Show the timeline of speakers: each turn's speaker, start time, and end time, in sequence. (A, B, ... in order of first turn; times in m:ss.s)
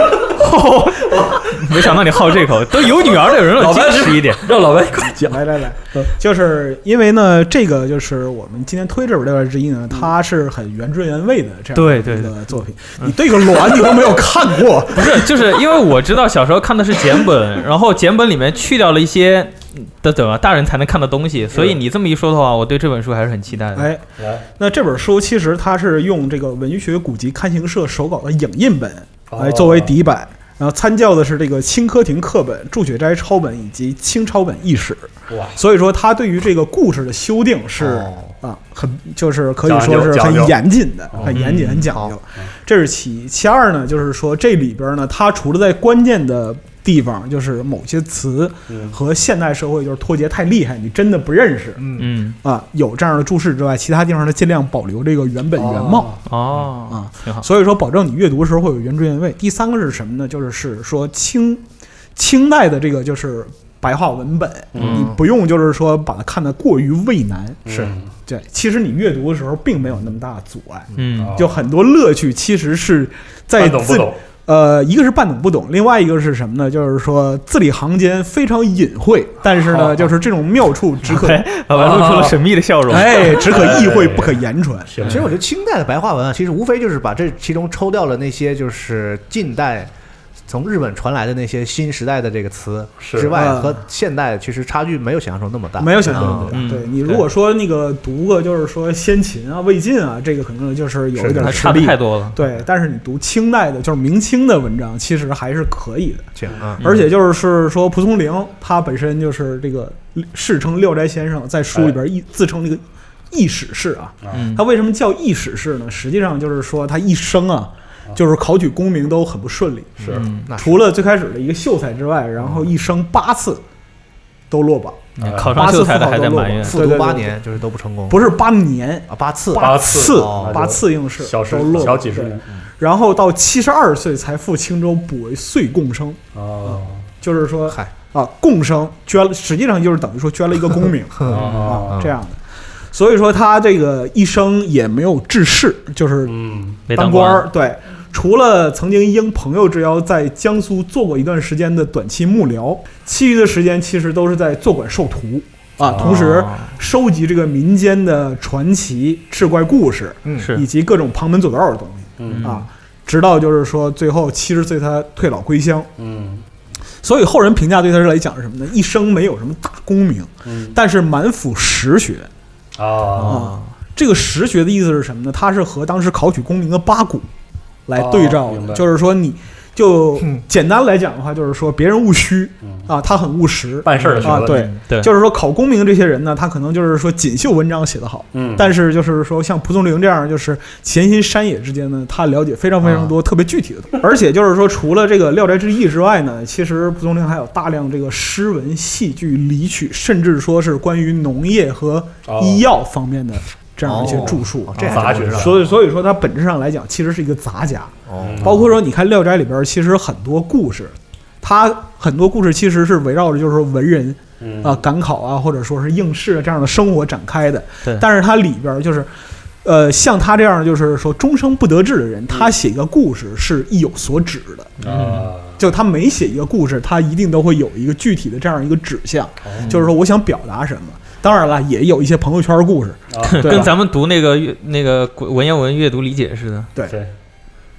0:00.2-0:04.4 A
0:01.2-0:01.9 B
0:02.9-0:06.1 B
0:05.2-0:15.4 C
0:11.7-0:13.1 A
0:14.9-0:23.9 A
0:21.5-0:21.8 B
0:23.7-0:24.0 C
0:24.2-0:24.4 B
0:24.6-0:51.8 C
0:29.3-0:29.9 B
0:35.3-0:35.6 B
0:37.8-0:38.3 D
0:39.6-0:40.6 B
0:41.3-0:41.9 A
0:41.9-0:42.1 D
0:48.7-0:49.0 B
0:51.8-0:52.1 D
0:52.0-0:52.4 A
0:52.4-0:56.2 C
0:55.6-0:56.2 B
0:56.2-0:57.4 A
0:56.9-1:01.6 C
1:02.2-1:07.6 C
1:04.7-1:05.1 B
1:04.8-1:05.1 A
1:04.8-1:05.1 D
1:07.6-1:08.1 B
1:07.7-1:07.9 D
1:08.3-1:21.5 C
1:11.0-1:11.4 A
1:11.2-1:11.5 B
1:13.6-1:14.2 B
1:19.7-1:20.1 B
1:21.0-1:23.6 A
1:21.7-1:22.4 B
1:22.9-1:24.9 C
1:23.0-1:25.3 B
1:25.0-1:29.9 D
1:30.5-1:36.6 D
1:33.0-1:33.3 B
1:33.3-1:33.8 C
1:35.8-1:46.3 C
1:36.5-1:37.2 A
1:41.1-1:41.8 D
1:41.4-1:42.4 A
1:46.4-1:46.8 D
1:46.8-1:47.1 A
1:46.8-2:03.6 C
1:54.3-1:54.6 A
2:00.0-2:00.8 D
2:00.1-2:00.5 A
2:02.4-2:02.7 D
2:04.5-2:07.4 C
2:05.2-2:06.8 A
2:05.2-2:05.6 B
2:06.6-2:08.3 D
2:08.1-2:22.4 C
2:09.1-2:10.7 D
2:09.6-2:12.4 B
2:16.3-2:17.0 B
2:21.2-2:22.1 D
2:21.2-2:22.0 B
2:22.9-2:26.3 C
2:26.2-2:26.8 B
2:26.9-2:27.5 A
2:26.9-2:45.9 C
2:35.9-2:36.8 A
2:40.2-2:40.5 D
2:40.4-2:40.6 A
2:42.2-2:42.5 B
2:42.3-2:42.7 A
2:46.0-2:46.4 B
2:47.0-2:52.3 C
2:50.4-2:50.8 B
2:52.8-2:53.5 B
2:53.2-2:53.6 A
2:53.2-2:57.3 C
2:57.9-3:39.1 C
2:57.9-2:58.8 B
3:03.8-3:04.6 B
3:04.1-3:05.1 A
3:08.3-3:08.7 B
3:22.3-3:22.6 B
3:23.8-3:25.6 D
3:24.0-3:25.6 B
3:28.1-3:28.7 D
3:28.2-3:28.7 B
3:34.4-3:34.8 B
3:39.6-3:44.7 C
3:44.8-3:45.6 B
3:44.8-3:45.3 A
3:45.6-3:53.7 C
3:49.4-3:49.8 B
3:53.1-3:53.7 B
3:53.2-3:56.7 A